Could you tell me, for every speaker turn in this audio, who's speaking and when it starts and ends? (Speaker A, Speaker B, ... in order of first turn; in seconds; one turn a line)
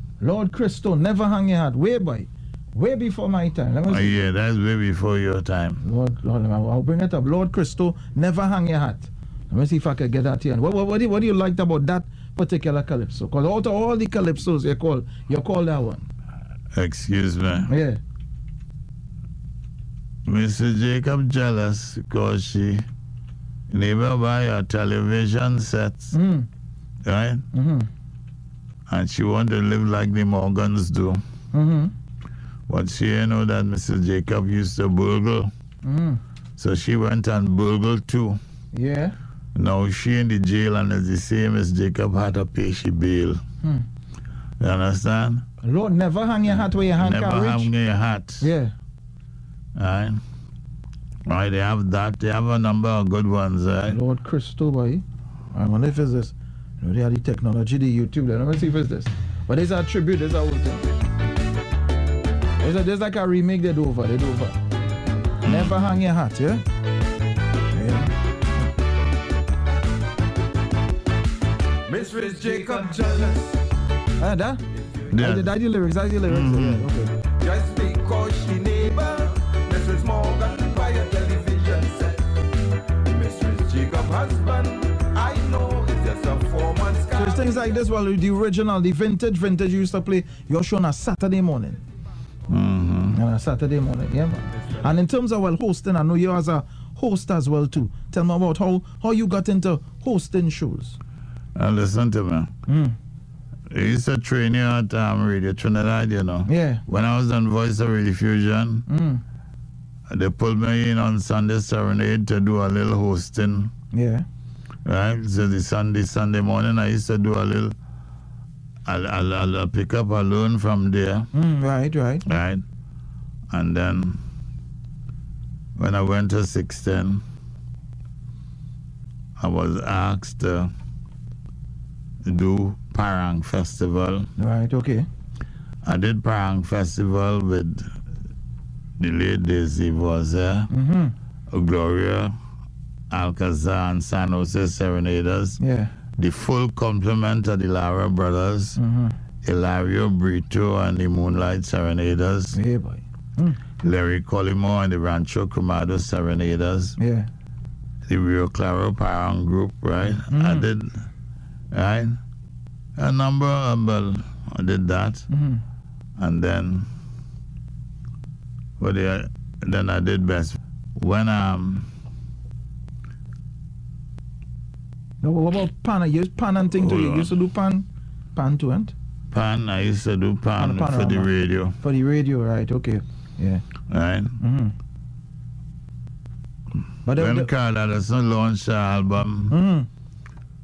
Speaker A: 0.2-4.2
Speaker B: 3.9-5.8
Speaker A: 5.8-16.1
Speaker B: 16.7-17.7
Speaker A: 17.7-18.0
Speaker B: 20.2-22.9
Speaker B: 23.7-26.1
Speaker A: 26.1-26.5
Speaker B: 27.0-27.4
Speaker A: 27.5-27.9
Speaker B: 28.9-31.2
Speaker A: 31.5-31.9
Speaker B: 32.7-35.5
Speaker A: 35.8-36.2
Speaker B: 36.6-38.4
Speaker A: 38.7-39.1
Speaker B: 39.5-43.4
Speaker B: 44.6-45.5
Speaker A: 45.6-47.7
Speaker B: 47.0-48.5
Speaker A: 48.4-48.7
Speaker B: 49.7-50.2
Speaker B: 51.2-54.0
Speaker A: 53.9-60.9
Speaker A: 62.6-64.6
Speaker B: 65.4-65.9
Speaker A: 65.4-66.6
Speaker A: 67.7-68.1
Speaker C: 71.9-73.6
Speaker A: 74.2-77.1
Speaker B: 75.1-75.5
Speaker B: 76.3-76.9
Speaker C: 77.4-82.2
Speaker C: 83.0-87.8
Speaker A: 87.1-91.8
Speaker B: 92.5-93.2
Speaker A: 93.1-101.0
Speaker B: 101.5-102.5
Speaker A: 102.7-103.0
Speaker B: 103.7-108.9
Speaker A: 106.5-106.8
Speaker A: 108.9-109.2
Speaker B: 110.1-113.7
Speaker A: 113.9-114.2
Speaker B: 114.8-117.7
Speaker B: 118.8-121.3
Speaker A: 121.3-122.2
Speaker B: 122.2-122.6
Speaker B: 123.5-124.2
Speaker B: 125.8-127.2
Speaker B: 129.4-130.7
Speaker B: 132.2-134.3
Speaker A: 134.4-135.1
Speaker B: 135.8-137.9
Speaker B: 139.0-140.7
Speaker A: 140.7-141.1
Speaker B: 141.5-142.3
Speaker B: 143.1-145.6
Speaker A: 145.6-145.9
Speaker B: 146.1-148.8
Speaker A: 148.8-149.2
Speaker B: 149.4-152.6
Speaker A: 152.5-153.6
Speaker B: 153.8-157.0
Speaker A: 157.0-157.3
Speaker B: 158.1-161.0
Speaker A: 160.2-160.7
Speaker B: 161.7-162.2
Speaker B: 162.9-165.3
Speaker A: 165.3-165.6
Speaker B: 166.2-166.9
Speaker B: 168.8-171.9
Speaker A: 175.2-178.9
Speaker B: 176.7-177.3
Speaker B: 179.3-181.8
Speaker A: 180.6-183.6
Speaker B: 183.9-184.4
Speaker A: 184.4-184.7
Speaker A: 187.0-187.5
Speaker B: 187.1-189.5
Speaker A: 189.5-189.9